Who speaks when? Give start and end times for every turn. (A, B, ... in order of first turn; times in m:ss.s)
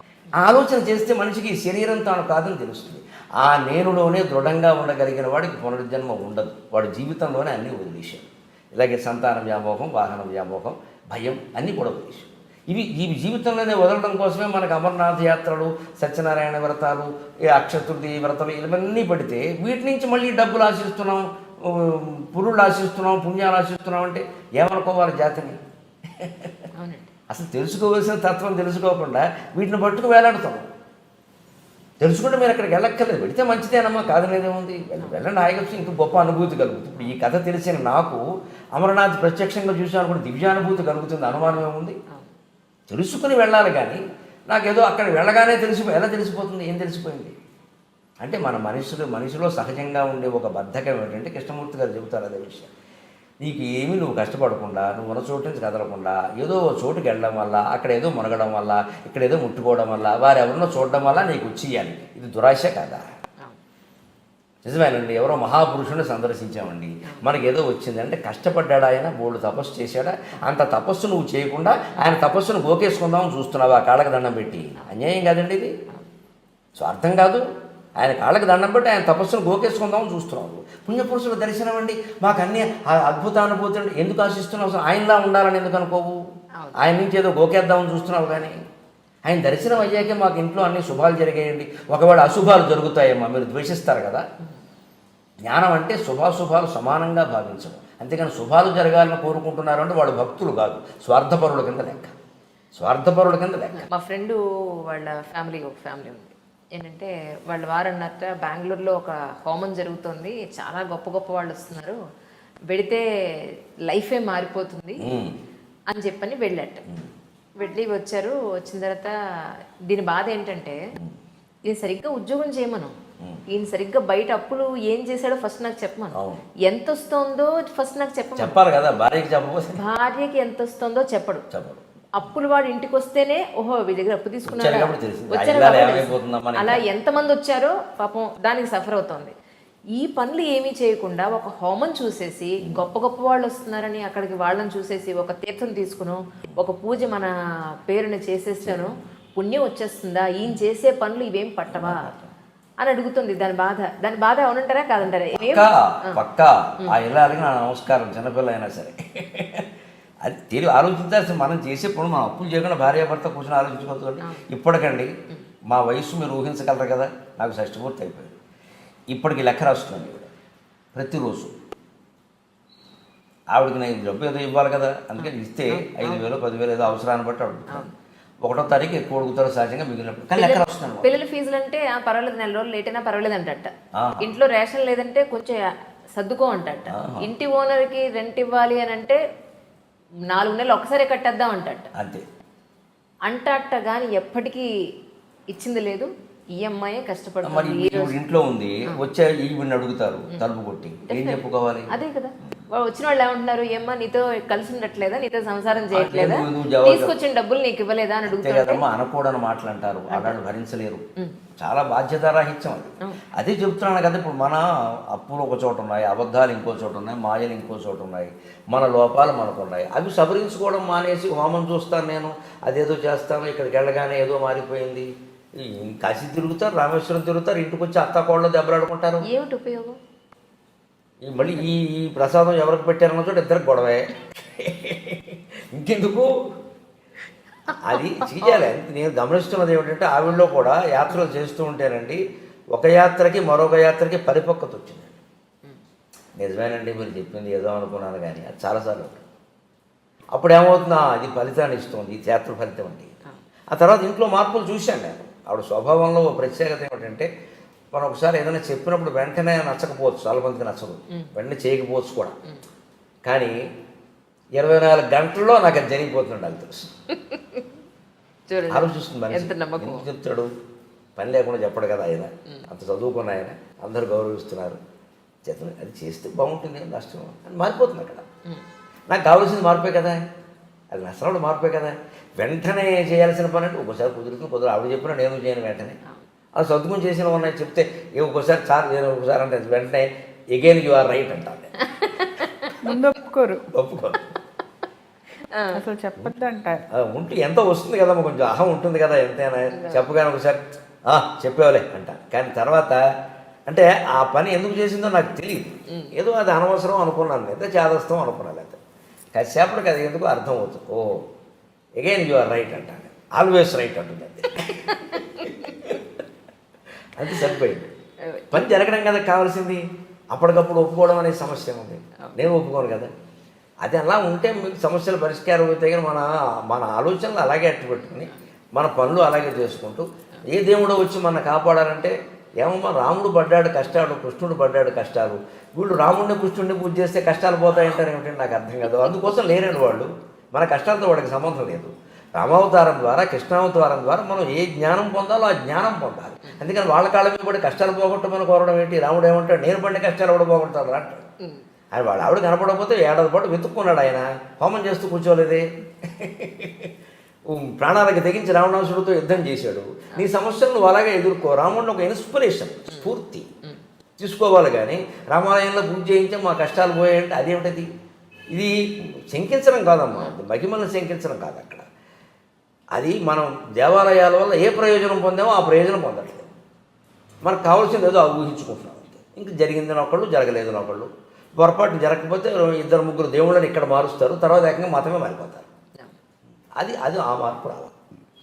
0:00.3-0:25.6 A
0:26.2-0:26.5 A
0:26.8-0:27.1 B
0:27.3-0:30.7 A
0:32.0-0:42.0 A
0:42.9-0:47.4 A
0:48.2-0:52.7 A
0:53.4-1:03.0 A
1:04.6-1:15.8 A
1:16.8-1:17.4 A
1:18.0-1:26.2 A
1:26.8-1:28.6 A
1:29.3-1:34.2 A
1:35.4-1:42.1 A
1:42.8-1:43.9 A
1:43.8-1:52.0 B
1:52.7-1:55.1 B
1:55.0-1:55.4 A
1:55.9-1:56.8 B
1:57.6-1:59.1 B
1:59.9-2:00.8 B
2:01.7-2:03.0 B
2:03.5-2:08.6 B
2:06.1-2:06.5 A
2:08.4-2:09.8 A
2:09.8-2:11.5 B
2:11.5-2:11.8 A
2:12.2-2:19.3 B
2:14.5-2:16.8 A
2:20.0-2:27.3 B
2:27.9-2:32.1 B
2:28.6-2:28.9 A
2:31.7-2:32.3 A
2:32.8-2:36.2 B
2:35.4-2:39.7 A
2:40.2-2:45.1 A
2:45.7-2:48.3 A
2:49.1-2:50.3 A
2:50.9-2:51.5 A
2:53.5-2:57.9 A
2:55.2-2:56.3 B
2:58.4-3:01.1 A
3:00.4-3:09.2 B
3:04.0-3:04.3 A
3:06.9-3:07.3 A
3:10.3-3:11.9 B
3:12.0-3:12.2 A
3:13.3-3:14.7 B
3:15.5-3:18.2 B
3:17.4-3:22.0 A
3:21.1-3:28.8 B
3:25.9-3:27.1 A
3:28.3-3:31.1 A
3:31.6-3:49.2 A
3:49.2-3:50.0 B
3:51.2-3:56.3 A
3:57.7-3:58.7 B
3:57.8-4:02.2 A
4:02.8-4:05.2 A
4:06.4-4:09.2 A
4:10.3-4:13.2 A
4:13.7-4:17.3 A
4:17.9-4:22.4 A
4:23.3-4:23.6 A
4:24.6-4:26.9 A
4:27.1-4:27.6 B
4:28.5-4:30.0 B
4:28.7-4:30.5 A
4:31.2-4:34.8 A
4:35.4-4:38.2 A
4:39.1-4:40.2 A
4:40.9-4:46.0 A
4:46.6-4:51.7 A
4:51.8-4:52.8 B
4:52.8-4:53.7 C
4:53.7-4:54.2 A
4:55.5-4:55.8 B
4:55.7-4:56.8 C
4:56.9-5:03.0 A
4:59.7-5:00.1 B
5:03.7-5:08.8 A
5:09.3-5:11.3 A
5:12.0-5:16.0 A
5:14.9-5:15.5 B
5:17.2-5:17.9 A
5:17.3-5:17.6 B
5:18.2-5:18.6 B
5:18.5-5:23.1 A
5:23.8-5:51.2 A
5:28.0-5:28.4 B
5:51.9-5:56.9 A
5:57.5-6:03.5 A
6:02.9-6:03.8 B
6:04.2-6:07.9 A
6:08.5-6:11.9 A
6:13.0-6:16.5 A
6:17.4-6:25.7 A
6:26.8-6:27.9 A